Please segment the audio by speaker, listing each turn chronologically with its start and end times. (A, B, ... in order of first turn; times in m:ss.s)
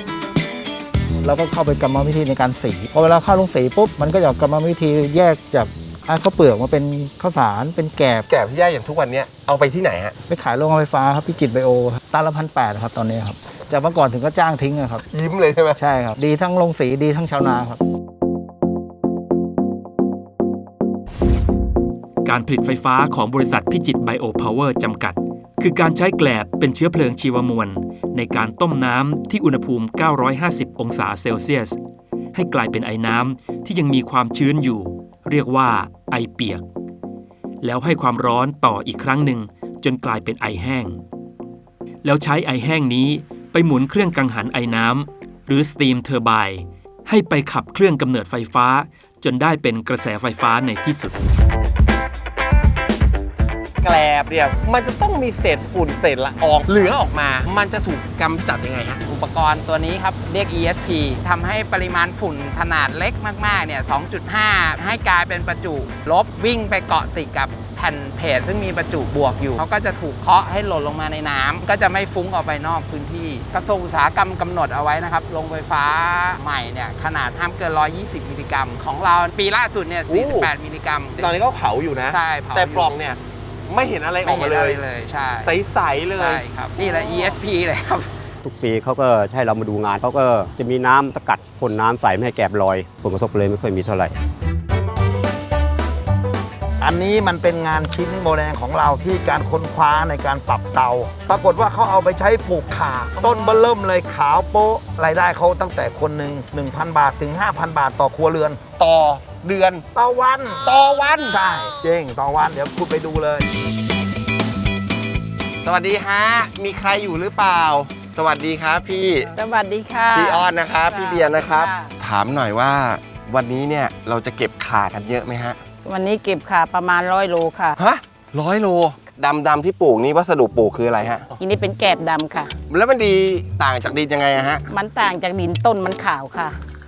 0:01.2-0:08.3 A
0:08.3-0:10.1 B
0:10.3-0:15.0 A
0:15.1-0:15.8 B
0:15.7-0:17.8 A
0:22.2-0:31.8 C
0:32.3-0:36.6 C
0:37.6-0:41.0 C
0:42.0-0:51.2 C
0:53.8-0:59.0 B
0:59.0-1:21.4 D
1:20.1-1:20.5 B
1:21.2-1:24.8 B
1:22.1-1:23.0 D
1:24.2-1:25.6 D
1:25.4-1:26.4 B
1:26.1-1:28.1 D
1:28.4-1:34.2 E
1:36.8-1:48.6 F
1:48.8-1:49.8 B
1:49.9-1:50.7 F
1:50.6-1:51.4 B
1:51.2-1:53.5 F
1:55.6-1:59.3 B
1:59.3-2:01.9 G
2:00.1-2:05.6 B
2:05.8-2:07.7 G
2:07.8-2:11.3 B
2:11.4-2:12.5 G
2:12.7-2:14.6 B
2:14.7-2:16.6 G